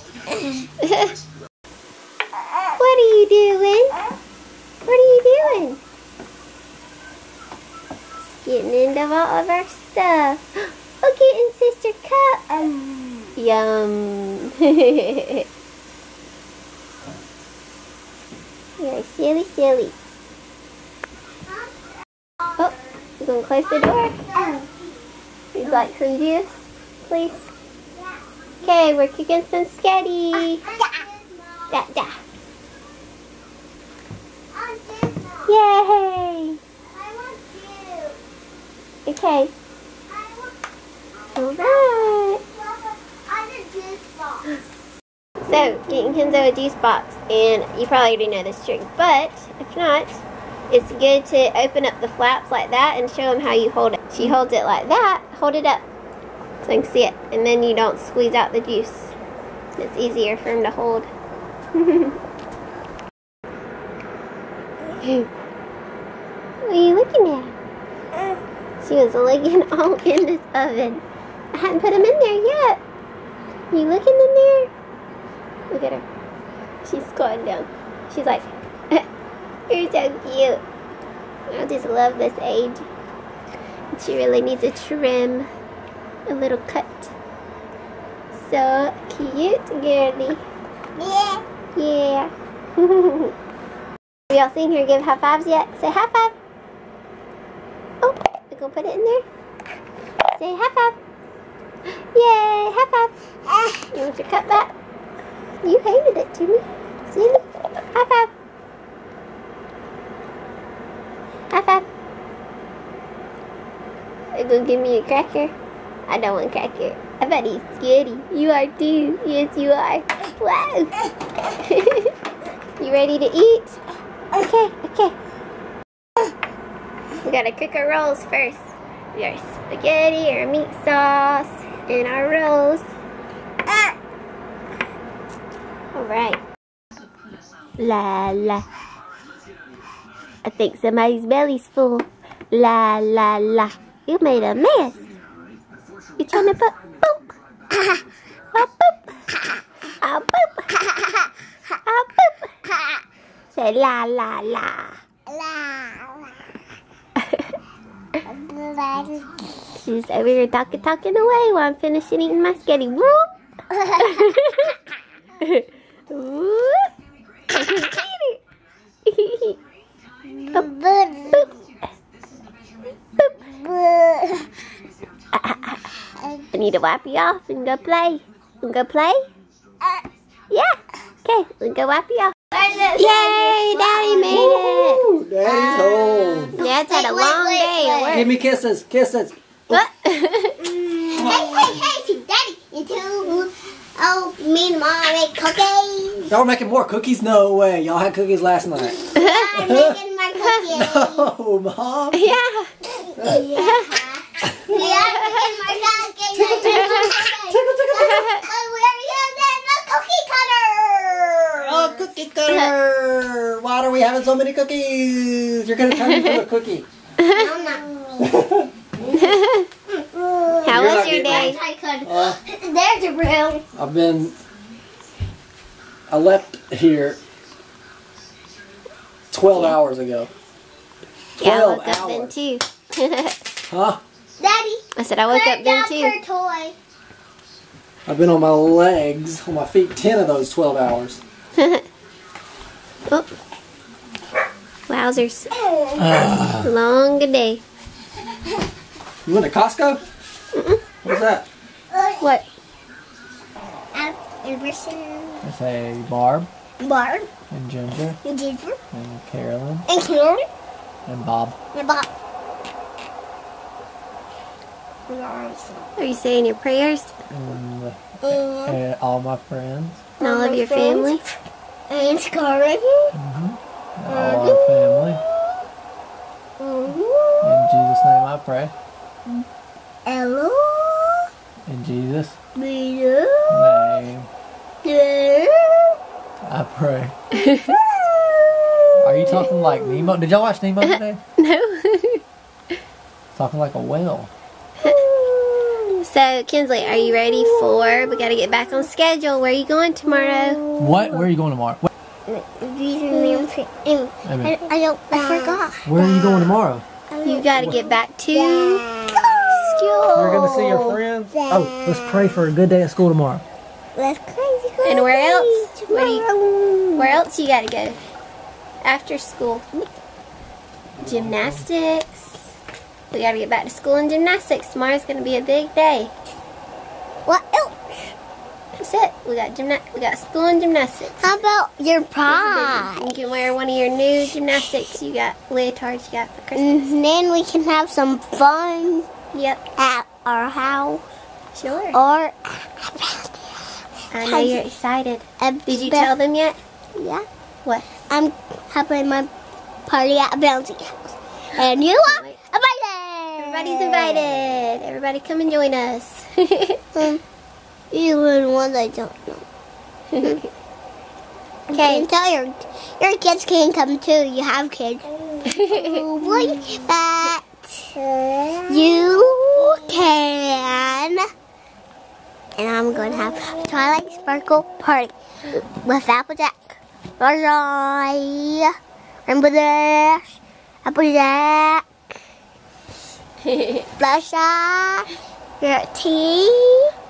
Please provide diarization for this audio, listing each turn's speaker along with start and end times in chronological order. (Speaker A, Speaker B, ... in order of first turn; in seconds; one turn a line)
Speaker A: 0.8-1.1
Speaker A: 2.8-4.0
Speaker A: 4.8-5.8
Speaker A: 8.4-12.4
Speaker B: 12.8-13.2
Speaker A: 13.3-15.4
Speaker A: 18.8-19.9
Speaker A: 22.6-24.2
Speaker B: 23.6-25.1
Speaker A: 25.5-27.5
Speaker B: 27.9-28.2
Speaker A: 28.6-30.6
Speaker B: 30.3-31.8
Speaker A: 31.7-32.2
Speaker B: 34.5-35.5
Speaker A: 35.5-36.6
Speaker B: 36.8-38.2
Speaker A: 39.0-39.5
Speaker B: 40.1-40.6
Speaker B: 41.3-44.5
Speaker A: 41.3-42.4
Speaker A: 45.4-55.8
Speaker A: 56.6-59.1
Speaker A: 59.8-61.1
Speaker A: 61.7-62.2
Speaker A: 65.0-65.3
Speaker A: 66.6-67.5
Speaker A: 68.8-72.8
Speaker A: 73.7-74.7
Speaker A: 75.7-76.0
Speaker A: 76.8-79.0
Speaker A: 79.7-80.6
Speaker A: 81.5-82.9
Speaker A: 83.9-85.5
Speaker A: 86.3-87.1
Speaker A: 88.3-90.4
Speaker B: 91.0-91.4
Speaker A: 91.7-93.3
Speaker A: 94.3-96.3
Speaker A: 98.0-99.2
Speaker A: 100.3-101.0
Speaker A: 102.1-103.1
Speaker B: 103.5-103.9
Speaker A: 103.9-104.7
Speaker A: 105.6-108.3
Speaker A: 111.5-111.8
Speaker A: 114.3-115.5
Speaker A: 116.1-120.9
Speaker A: 121.5-122.1
Speaker A: 122.8-123.8
Speaker A: 124.3-125.2
Speaker A: 127.2-132.9
Speaker A: 135.9-136.4
Speaker A: 137.8-138.6
Speaker A: 140.4-145.1
Speaker A: 146.2-147.3
Speaker B: 147.7-148.0
Speaker A: 148.5-149.2
Speaker A: 150.0-150.8
Speaker A: 151.7-152.5
Speaker A: 153.5-155.0
Speaker B: 155.3-156.3
Speaker A: 157.2-157.5
Speaker B: 158.2-159.3
Speaker A: 159.7-163.3
Speaker B: 163.7-164.3
Speaker A: 164.0-164.7
Speaker A: 165.4-166.9
Speaker A: 167.5-168.4
Speaker A: 169.1-169.6
Speaker B: 170.2-171.5
Speaker B: 173.4-174.5
Speaker A: 175.3-175.8
Speaker B: 176.1-176.4
Speaker A: 176.5-179.2
Speaker A: 180.5-182.3
Speaker B: 182.5-188.3
Speaker A: 182.9-185.1
Speaker C: 185.2-186.6
Speaker A: 186.6-188.3
Speaker C: 188.1-189.8
Speaker A: 189.7-190.6
Speaker B: 190.6-196.3
Speaker C: 191.1-191.8
Speaker C: 196.3-199.0
Speaker B: 198.9-201.3
Speaker A: 199.1-199.7
Speaker C: 199.6-200.0
Speaker A: 200.4-200.7
Speaker C: 200.7-202.3
Speaker A: 202.1-202.7
Speaker B: 202.8-212.0
Speaker C: 203.2-203.5
Speaker A: 203.5-204.0
Speaker C: 204.5-204.9
Speaker A: 205.0-205.5
Speaker C: 206.3-208.2
Speaker A: 206.8-207.1
Speaker A: 208.0-208.4
Speaker C: 211.6-216.8
Speaker A: 212.4-212.7
Speaker A: 216.0-216.4
Speaker A: 217.2-217.5
Speaker B: 217.3-218.4
Speaker C: 218.2-218.7
Speaker A: 219.1-219.7
Speaker B: 219.9-223.6
Speaker A: 220.6-221.6
Speaker C: 220.7-222.4
Speaker C: 223.7-224.3
Speaker C: 226.1-227.2
Speaker C: 229.3-230.3
Speaker A: 231.4-233.4
Speaker C: 231.4-232.3
Speaker C: 233.7-234.0
Speaker B: 234.4-236.8
Speaker A: 234.9-236.2
Speaker C: 238.1-241.2
Speaker A: 241.6-241.8
Speaker A: 244.9-245.5
Speaker B: 245.5-246.2
Speaker C: 246.0-246.7
Speaker A: 246.6-247.6
Speaker C: 249.2-250.0
Speaker A: 250.5-250.8
Speaker C: 251.0-251.5
Speaker B: 251.9-252.2
Speaker A: 252.2-252.4
Speaker B: 253.9-255.5
Speaker C: 255.4-256.5
Speaker B: 256.8-257.3
Speaker C: 257.5-258.2
Speaker B: 258.2-258.8
Speaker C: 258.9-259.9
Speaker B: 259.9-260.4
Speaker C: 261.1-261.6
Speaker B: 261.7-262.1
Speaker B: 265.1-265.7
Speaker A: 266.0-267.1
Speaker C: 267.3-270.0
Speaker B: 268.2-268.8
Speaker B: 270.2-271.2
Speaker A: 270.2-271.2
Speaker B: 271.9-273.1
Speaker C: 273.1-275.2
Speaker B: 274.1-275.4
Speaker B: 276.6-277.6
Speaker C: 277.4-278.7
Speaker B: 280.1-281.3
Speaker C: 281.6-282.4
Speaker B: 282.6-283.8
Speaker C: 283.5-284.3
Speaker B: 284.8-286.0
Speaker C: 286.4-287.1
Speaker A: 287.3-287.8
Speaker B: 287.4-290.1
Speaker C: 289.0-291.2
Speaker A: 290.8-292.2
Speaker C: 293.3-294.3
Speaker B: 294.8-296.0
Speaker A: 296.0-300.6
Speaker B: 296.8-298.9
Speaker B: 300.0-301.3
Speaker C: 300.8-301.9
Speaker B: 302.3-306.5
Speaker A: 303.1-303.4
Speaker C: 304.2-304.6
Speaker C: 305.1-306.8
Speaker B: 307.1-312.4
Speaker A: 307.2-310.1
Speaker C: 307.5-307.8
Speaker C: 310.1-313.4
Speaker B: 313.9-317.2
Speaker A: 314.8-316.3
Speaker A: 316.9-318.0
Speaker A: 318.8-319.6
Speaker C: 321.0-321.6
Speaker A: 321.0-322.5
Speaker A: 323.1-326.1
Speaker B: 327.2-327.8
Speaker A: 328.8-331.4
Speaker B: 331.2-333.0
Speaker A: 332.3-336.9
Speaker B: 336.6-339.1
Speaker A: 339.3-339.6
Speaker B: 339.8-341.0
Speaker A: 341.5-342.0
Speaker B: 341.9-344.6
Speaker A: 344.1-346.6
Speaker B: 345.4-346.1
Speaker B: 346.9-347.2
Speaker B: 348.0-349.3
Speaker B: 349.9-354.3
Speaker A: 352.1-352.4
Speaker A: 353.4-356.8
Speaker B: 356.9-357.2
Speaker B: 357.9-359.4
Speaker B: 361.7-371.2
Speaker A: 361.7-362.1
Speaker A: 365.5-366.0
Speaker A: 368.8-370.0
Speaker B: 372.6-378.7
Speaker B: 379.2-381.8
Speaker A: 383.4-383.9
Speaker B: 384.0-385.1
Speaker B: 385.6-386.9